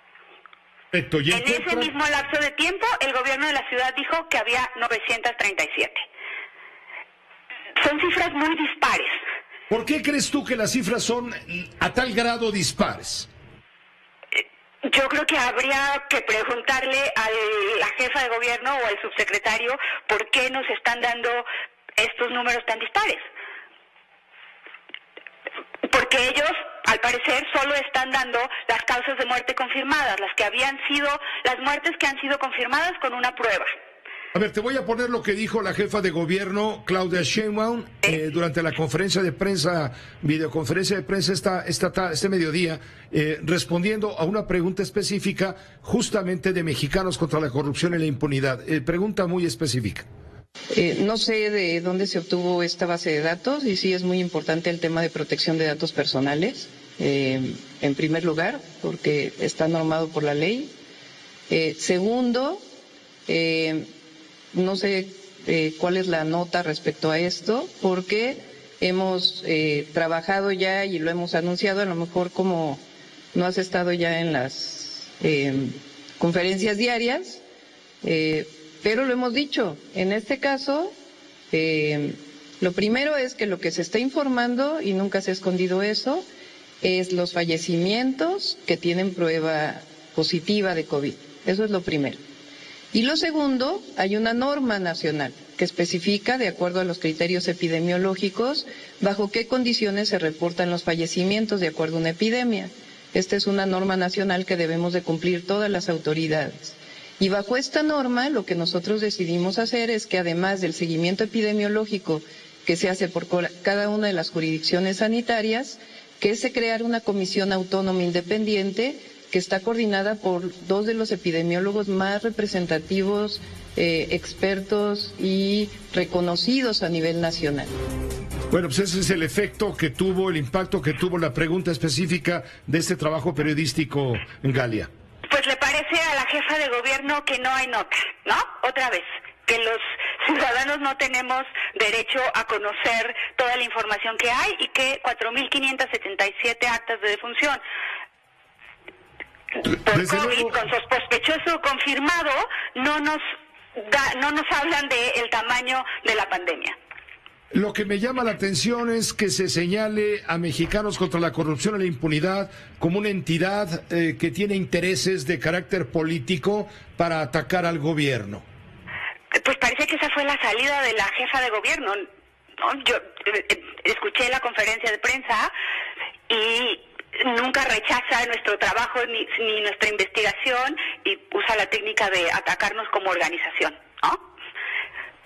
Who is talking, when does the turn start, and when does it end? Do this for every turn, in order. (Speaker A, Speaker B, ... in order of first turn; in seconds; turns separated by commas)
Speaker A: 0.9-1.9, Speaker B: 1.3-6.0, Speaker B: 7.8-9.2, Speaker A: 9.7-13.3, Speaker B: 14.3-21.5, Speaker B: 22.0-23.2, Speaker B: 25.9-33.7, Speaker A: 34.3-50.1, Speaker C: 50.7-60.7, Speaker C: 61.5-62.6, Speaker C: 63.3-63.9, Speaker C: 64.5-72.8, Speaker C: 73.3-77.4, Speaker C: 78.0-80.9, Speaker C: 81.5-86.3, Speaker C: 86.8-92.2, Speaker C: 92.9-127.7, Speaker A: 128.5-134.9, Speaker B: 135.3-147.6, Speaker B: 149.7-153.2, Speaker A: 149.9-150.6, Speaker B: 153.8-156.8, Speaker A: 157.5-168.4, Speaker B: 169.3-172.0, Speaker B: 172.6-175.5, Speaker B: 176.3-184.2